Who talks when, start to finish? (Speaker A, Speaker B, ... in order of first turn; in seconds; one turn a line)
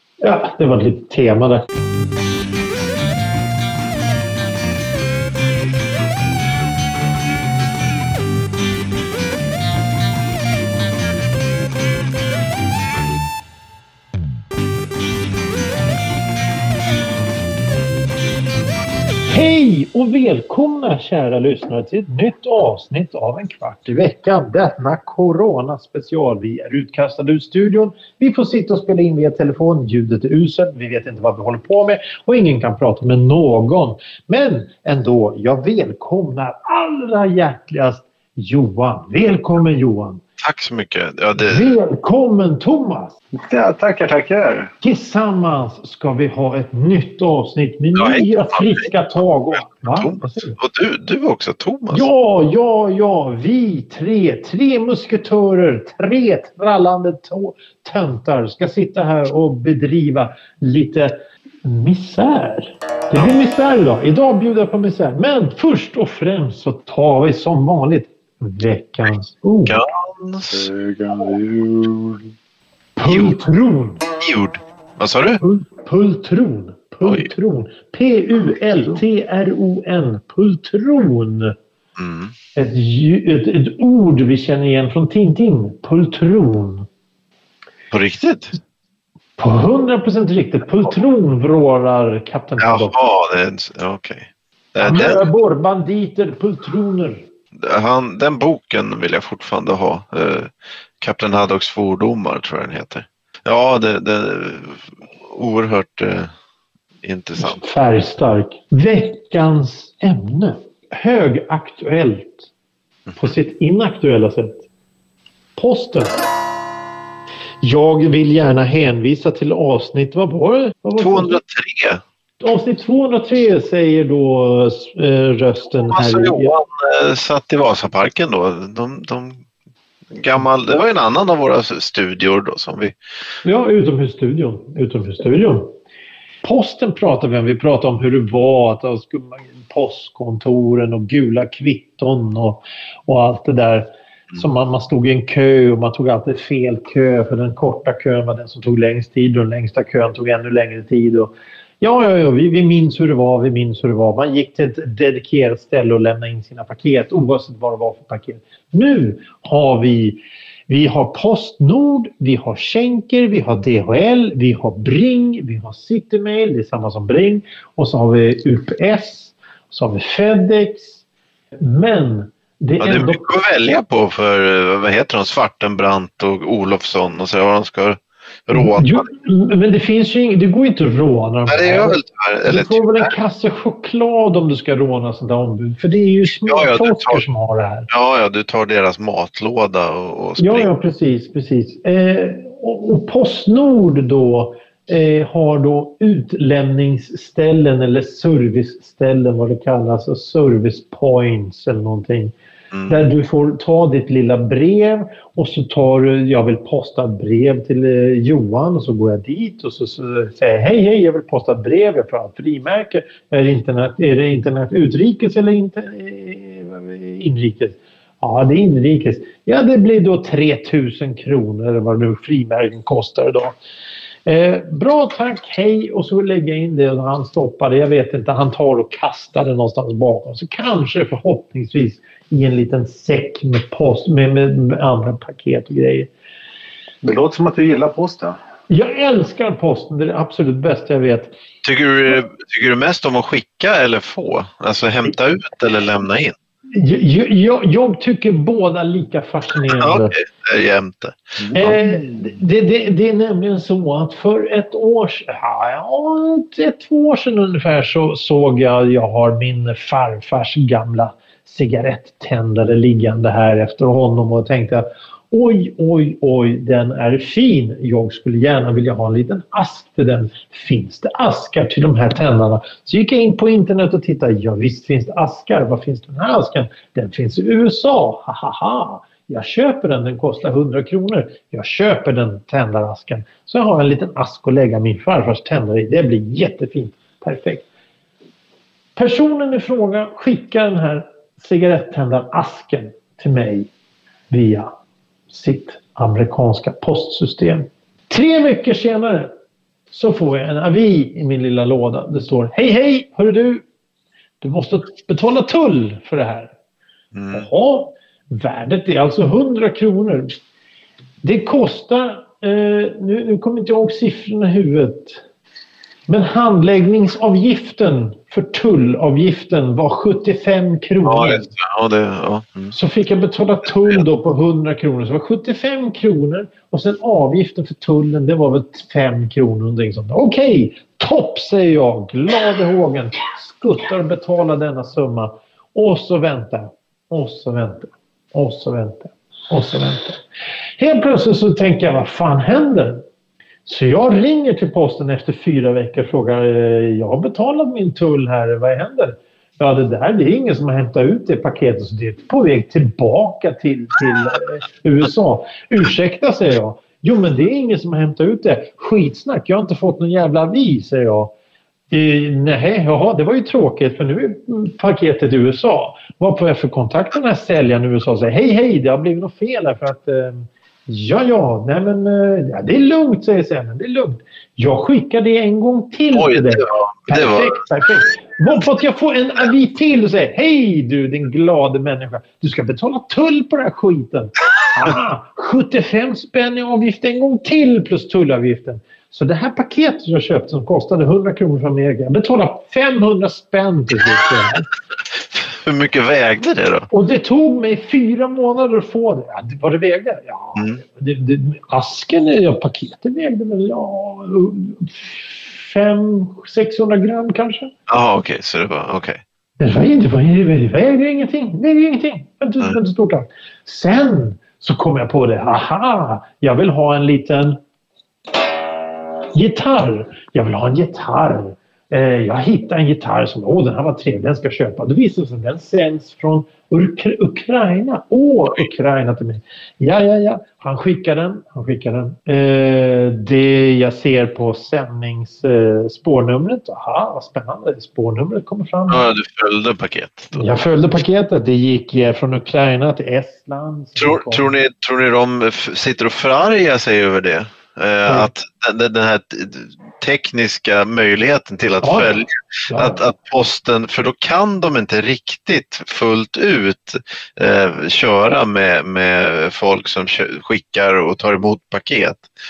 Speaker A: 0.2-1.6
Speaker A: 19.3-40.2
Speaker B: 40.4-41.7
Speaker A: 41.4-43.1
Speaker C: 43.4-44.7
Speaker A: 44.8-50.6
Speaker B: 48.0-48.9
Speaker B: 49.5-52.1
Speaker A: 51.9-69.8
Speaker B: 69.7-70.7
Speaker C: 70.5-72.3
Speaker A: 73.0-74.0
Speaker B: 73.0-73.4
Speaker B: 74.2-75.4
Speaker A: 75.4-81.5
Speaker B: 82.0-82.3
Speaker A: 82.5-86.9
Speaker B: 87.9-88.6
Speaker A: 89.4-92.9
Speaker B: 92.6-95.2
Speaker A: 94.8-97.2
Speaker B: 97.6-106.3
Speaker B: 107.0-107.6
Speaker A: 107.4-112.5
Speaker A: 113.2-114.7
Speaker A: 115.6-116.2
Speaker A: 117.6-121.4
Speaker B: 121.0-122.0
Speaker A: 122.4-126.5
Speaker B: 125.9-129.5
Speaker B: 130.1-132.9
Speaker A: 133.4-135.7
Speaker A: 136.4-171.0
Speaker A: 171.6-173.2
Speaker B: 172.8-179.1
Speaker A: 178.5-187.9
Speaker B: 181.5-183.1
Speaker B: 186.5-187.2
Speaker B: 187.9-190.7
Speaker A: 190.4-202.3
Speaker B: 202.7-203.0
Speaker A: 202.9-223.5
Speaker A: 224.3-236.1
Speaker C: 237.0-238.4
Speaker A: 238.7-241.3
Speaker B: 241.6-246.3
Speaker A: 246.7-250.2
Speaker B: 249.7-251.8
Speaker C: 251.4-252.3
Speaker A: 251.5-287.7
Speaker A: 289.0-293.7
Speaker A: 294.3-294.7
Speaker A: 295.3-299.3
Speaker A: 299.9-303.6
Speaker A: 304.4-306.5
Speaker B: 307.1-307.5
Speaker A: 307.3-310.3
Speaker A: 311.2-315.2
Speaker A: 316.1-321.5
Speaker B: 321.0-322.8
Speaker A: 322.7-340.2
Speaker A: 340.8-343.0
Speaker A: 343.7-361.3
Speaker A: 361.9-394.7
Speaker B: 376.1-377.6
Speaker B: 395.1-396.9
Speaker A: 396.9-407.7
Speaker B: 407.9-409.2
Speaker A: 409.6-417.6
Speaker A: 419.3-439.1
Speaker B: 438.9-440.4
Speaker A: 440.3-444.5
Speaker B: 444.0-462.2
Speaker A: 451.8-453.1